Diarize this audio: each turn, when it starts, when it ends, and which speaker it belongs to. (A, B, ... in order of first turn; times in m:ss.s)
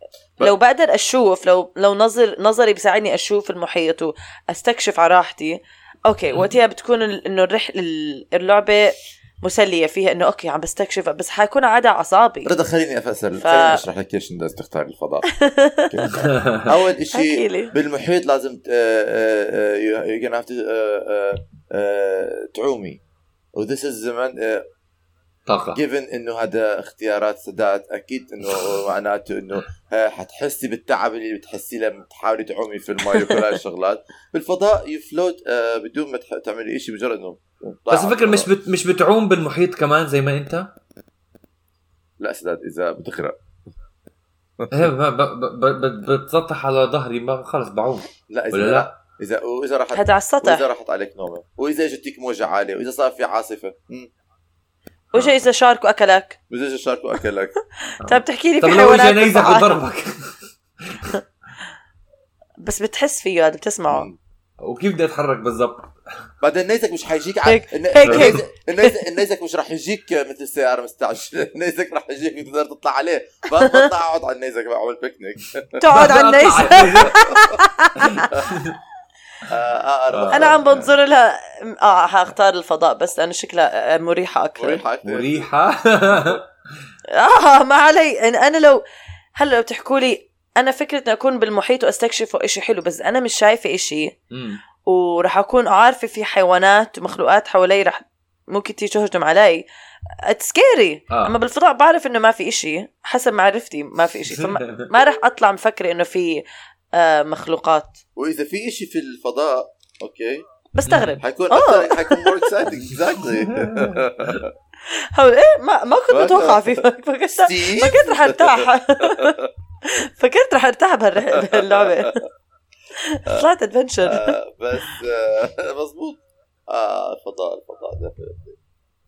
0:00.4-0:12.5 A
0:12.4-0:15.2 B
0:13.4-0:13.8 A
0:15.3-0:15.9 A
0:15.9-0:23.0 B
0:16.1-0:16.7 C
0:17.1-0:17.7 A
0:23.5-0:24.6 B
0:25.5-0:25.8 C
0:25.7-0:38.5 B
0:37.9-0:40.7 C
0:42.2-0:43.4 B
0:44.7-0:48.9 C
0:48.3-0:54.1 B
0:49.9-0:50.6 A
0:55.1-0:56.4 A
0:56.5-0:57.5 B
0:58.0-0:59.8 A
0:58.0-1:01.0 C
1:02.6-1:04.1 A
1:03.9-1:04.2 B
1:04.6-1:05.9 C
1:06.4-1:15.8 B
1:07.4-1:08.9 A
1:08.0-1:08.4 C
1:15.8-1:18.3 A
1:15.9-1:17.3 C
1:16.7-1:17.5 B
1:18.0-1:18.8 C
1:19.5-1:20.6 B
1:20.1-1:20.9 C
1:20.3-1:24.8 A
1:24.6-1:25.5 B
1:25.0-1:26.5 C
1:26.1-1:26.4 B
1:27.1-1:28.8 A
1:29.3-1:34.2 A
1:34.3-1:34.6 C
1:34.8-1:39.7 A
1:40.2-1:48.0 A
1:41.1-1:41.4 C
1:44.3-1:44.9 C
1:48.2-1:50.4 B
1:50.7-1:52.5 A
1:50.8-1:51.2 C
1:51.2-1:54.5 B
1:53.4-1:54.4 C
1:54.9-1:59.4 A
1:56.1-1:56.8 B
1:57.4-1:59.5 B
1:59.9-2:02.2 A
2:01.3-2:01.9 B
2:03.0-2:04.4 A
2:04.0-2:08.6 B